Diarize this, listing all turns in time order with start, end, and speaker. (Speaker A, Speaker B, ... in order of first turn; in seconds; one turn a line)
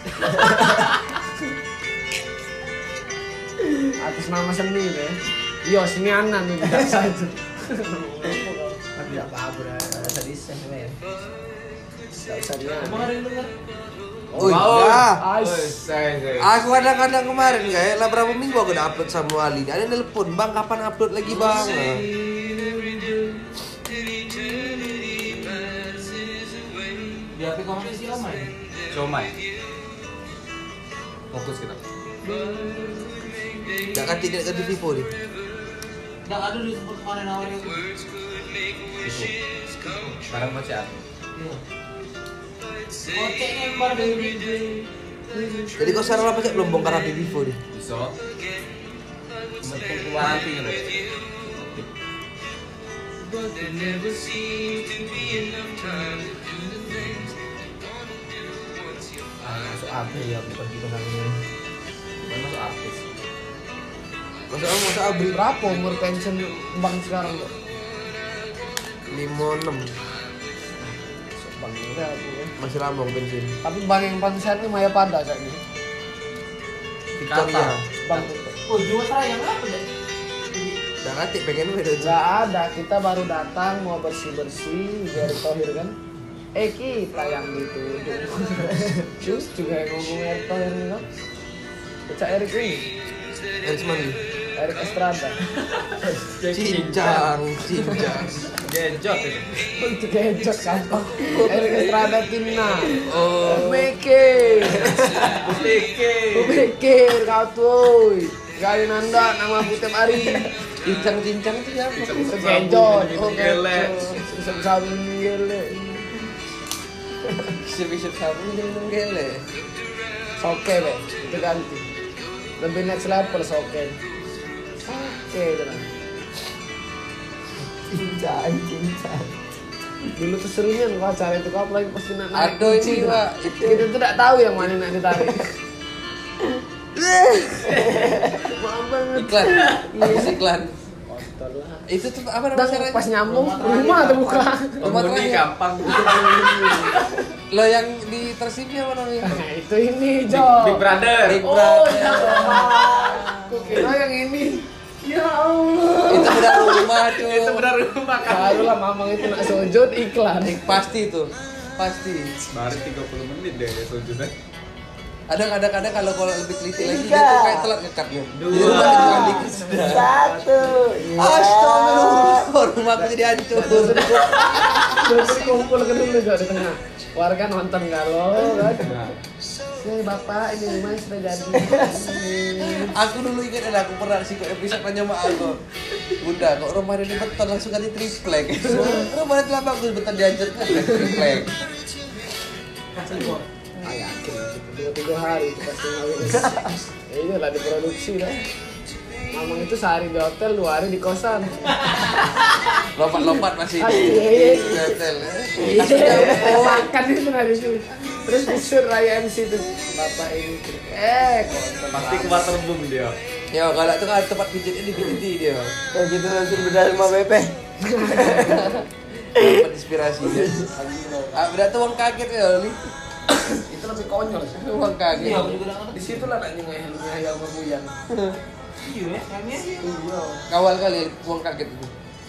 Speaker A: 0.3-0.8
Speaker B: 4.0-8.8
Speaker A: 8.9-11.0
Speaker B: 12.1-13.1
Speaker C: 12.8-13.5
Speaker B: 14.3-14.6
Speaker D: 14.4-15.2
Speaker E: 14.4-16.5
Speaker B: 15.2-15.8
Speaker D: 16.4-22.1
Speaker C: 21.3-22.0
Speaker B: 24.2-26.0
Speaker C: 27.3-28.5
Speaker E: 28.9-29.3
Speaker E: 31.3-31.8
Speaker B: 32.3-33.8
Speaker D: 33.9-35.1
Speaker C: 36.2-37.9
Speaker E: 39.0-39.3
Speaker B: 39.8-40.1
Speaker E: 40.3-41.0
Speaker C: 41.3-41.6
Speaker C: 43.1-44.9
Speaker D: 45.8-47.6
Speaker E: 47.7-48.1
Speaker E: 49.6-51.9
Speaker B: 53.3-54.5
Speaker A: 55.2-55.4
Speaker B: 55.6-56.6
Speaker A: 59.4-61.4
Speaker E: 62.2-63.0
Speaker D: 64.5-65.4
Speaker B: 65.3-67.5
Speaker D: 69.1-69.9
Speaker B: 71.3-72.5
Speaker D: 72.6-73.6
Speaker B: 73.6-75.6
Speaker D: 77.2-77.8
Speaker E: 77.2-78.2
Speaker B: 78.0-78.6
Speaker C: 78.7-79.9
Speaker C: 80.5-80.8
Speaker D: 81.0-82.2
Speaker B: 82.0-85.9
Speaker B: 86.5-91.0
Speaker B: 92.1-92.8
Speaker D: 93.6-94.2
Speaker B: 94.5-95.4
Speaker E: 96.0-97.3
Speaker D: 96.5-98.5
Speaker E: 98.5-99.5
Speaker B: 99.8-105.1
Speaker A: 101.2-102.1
Speaker D: 102.9-103.9
Speaker A: 104.8-105.2
Speaker E: 105.0-106.7
Speaker C: 105.3-105.5
Speaker B: 106.3-110.5
Speaker D: 110.8-112.5
Speaker E: 112.0-114.0
Speaker B: 112.2-116.0
Speaker D: 113.2-114.2
Speaker D: 117.5-119.4
Speaker B: 120.4-121.8
Speaker B: 122.6-124.0
Speaker B: 124.8-125.9
Speaker A: 127.8-129.3
Speaker B: 130.2-135.5
Speaker D: 132.3-133.8
Speaker A: 137.4-138.5
Speaker B: 138.4-140.4
Speaker D: 139.1-140.7
Speaker B: 141.1-141.9
Speaker D: 141.9-143.1
Speaker B: 142.5-144.8
Speaker C: 143.2-144.5
Speaker E: 144.8-146.9
Speaker D: 144.8-145.5
Speaker B: 146.3-146.8
Speaker D: 147.5-149.4
Speaker B: 149.2-150.8
Speaker E: 150.3-151.4
Speaker D: 151.2-153.0
Speaker B: 151.4-156.8
Speaker D: 156.1-157.7
Speaker E: 156.9-158.7
Speaker B: 158.2-160.7
Speaker D: 160.4-162.3
Speaker E: 162.5-164.3
Speaker D: 165.3-170.1
Speaker A: 166.8-167.7
Speaker E: 168.3-170.7
Speaker A: 168.5-172.5
Speaker D: 171.2-175.2
Speaker B: 173.5-178.9
Speaker A: 178.5-178.8
Speaker E: 178.8-179.2
Speaker B: 179.8-182.9
Speaker A: 181.5-182.0
Speaker D: 182.8-185.6
Speaker D: 186.2-191.5
Speaker C: 192.9-193.4
Speaker B: 193.8-198.4
Speaker A: 196.4-196.7
Speaker B: 199.3-201.9
Speaker C: 201.8-202.2
Speaker D: 202.9-206.9
Speaker B: 203.2-204.8
Speaker A: 205.6-206.6
Speaker B: 205.7-212.5
Speaker E: 211.9-213.2
Speaker D: 213.5-215.7
Speaker A: 215.9-218.7
Speaker B: 217.8-218.8
Speaker D: 219.3-220.7
Speaker A: 219.4-219.6
Speaker A: 220.2-220.6
Speaker B: 220.7-221.4
Speaker D: 221.3-222.8
Speaker B: 223.7-224.7
Speaker D: 224.5-225.6
Speaker C: 225.1-226.3
Speaker B: 225.9-227.9
Speaker D: 228.1-228.3
Speaker C: 228.8-229.9
Speaker B: 229.8-230.4
Speaker D: 230.5-231.9